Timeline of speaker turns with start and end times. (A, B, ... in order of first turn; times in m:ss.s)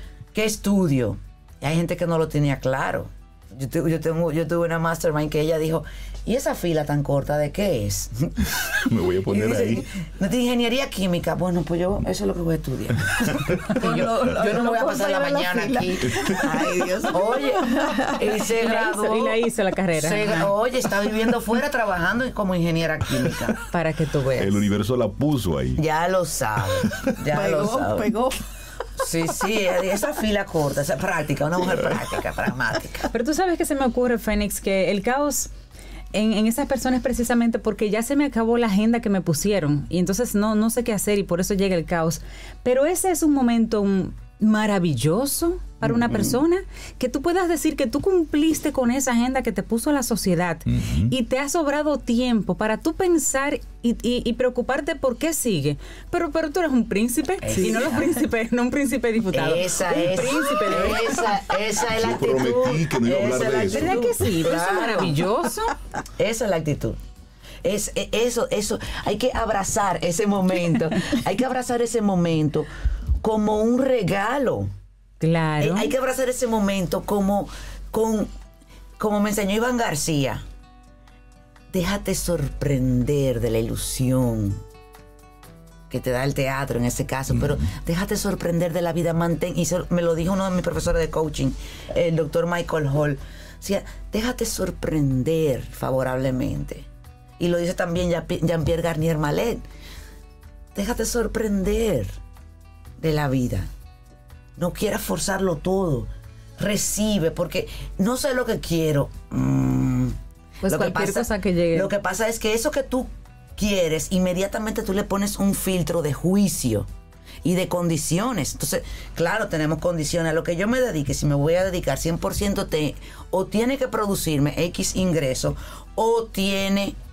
0:00.3-0:19.4 A
0:08.8-0:09.9 B
0:13.7-0:18.4 C
0:18.6-0:20.5 D
0:20.0-0:23.6 A
0:23.7-0:24.7 D
0:24.4-0:25.8 B
0:25.8-0:28.1 A
0:27.3-0:28.4 C
0:29.0-0:33.1 A
0:33.1-0:35.5 D
0:36.1-1:01.4 D
0:45.9-0:46.4 B
0:50.7-0:51.1 B
0:57.4-0:58.2 A
0:59.3-1:05.3 A
1:01.9-1:04.2 B
1:03.7-1:05.8 D
1:06.2-1:07.0 A
1:07.6-1:12.7 A
1:13.2-1:14.7 A
1:15.2-1:15.9 D
1:15.6-1:18.3 A
1:19.0-1:20.4 A
1:21.7-1:24.6 A
1:25.9-1:36.9 A
1:37.4-1:39.6 A
1:40.8-1:42.1 A
1:43.0-1:43.7 A
1:44.6-1:50.2 A
1:50.6-1:51.9 D
1:50.7-1:56.9 A
1:57.4-2:07.0 A